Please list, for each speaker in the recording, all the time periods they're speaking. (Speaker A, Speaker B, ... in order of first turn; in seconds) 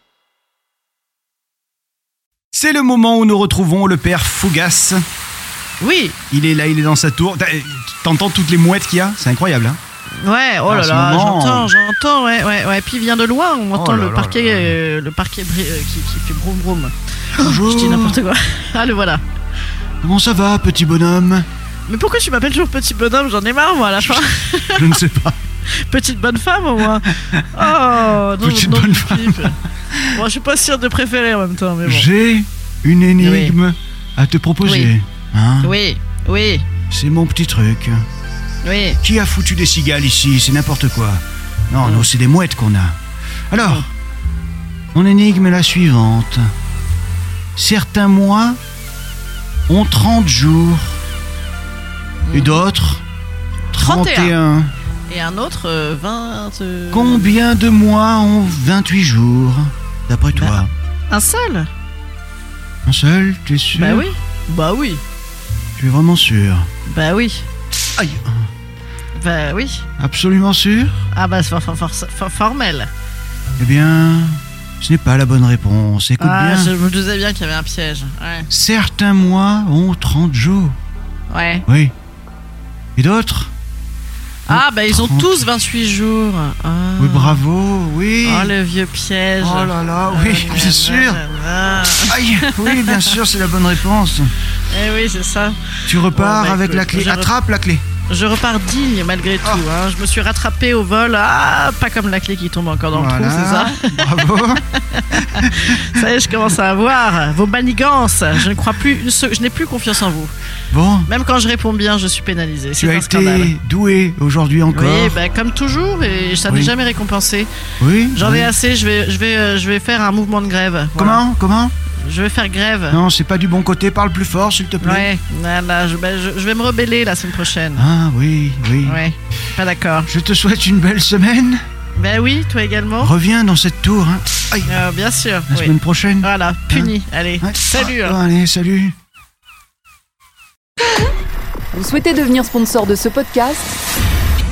Speaker A: 2.5-5.0, 6.3-9.8, 10.7-11.7, 13.7-14.8, 17.4-18.2, 20.0-21.5, 24.0-25.4, 27.3-30.2, 31.9-35.8, 36.9-38.0, 39.0-43.0, 43.5-43.9, 44.9-46.5, 47.6-48.6, 49.7-51.0, 52.3-53.0, 53.7-54.7, 56.9-60.7, 62.9-64.1, 65.8-66.7, 68.0-68.5, 70.0-71.0, 73.6-76.8, 78.5-80.8, 81.7-81.9, 83.0-83.5, 84.5-85.5, 87.0-88.5, 89.4-91.2, 91.8-94.3, 95.9-97.8, 102.9-106.1, 110.7-111.1, 112.8-115.2, 116.5-116.7, 117.8-118.5, 121.0-121.7, 122.9-125.1, 127.8-129.0, 130.1-131.6, 133.0-134.8, 135.5-138.9
Speaker B: 5.8-6.2, 10.2-19.2, 21.9-25.0, 25.7-29.6, 30.1-32.1, 33.2-33.6, 34.6-34.9, 35.6-36.7, 38.6-39.0, 43.6-43.9, 52.3-52.6, 53.8-54.4, 55.1-57.4, 60.4-61.7, 63.7-65.0, 66.9-67.5, 69.2-69.9, 71.1-72.9, 76.2-78.5, 81.3-81.7, 84.5-87.4, 88.2-93.2, 94.7-97.3, 98.1-110.3, 111.1-113.5, 114.7-117.5, 118.1-121.2, 122.0-123.0, 124.8-127.9, 128.8-130.1, 131.9-133.1, 134.7-138.2
Speaker C: 141.7-143.8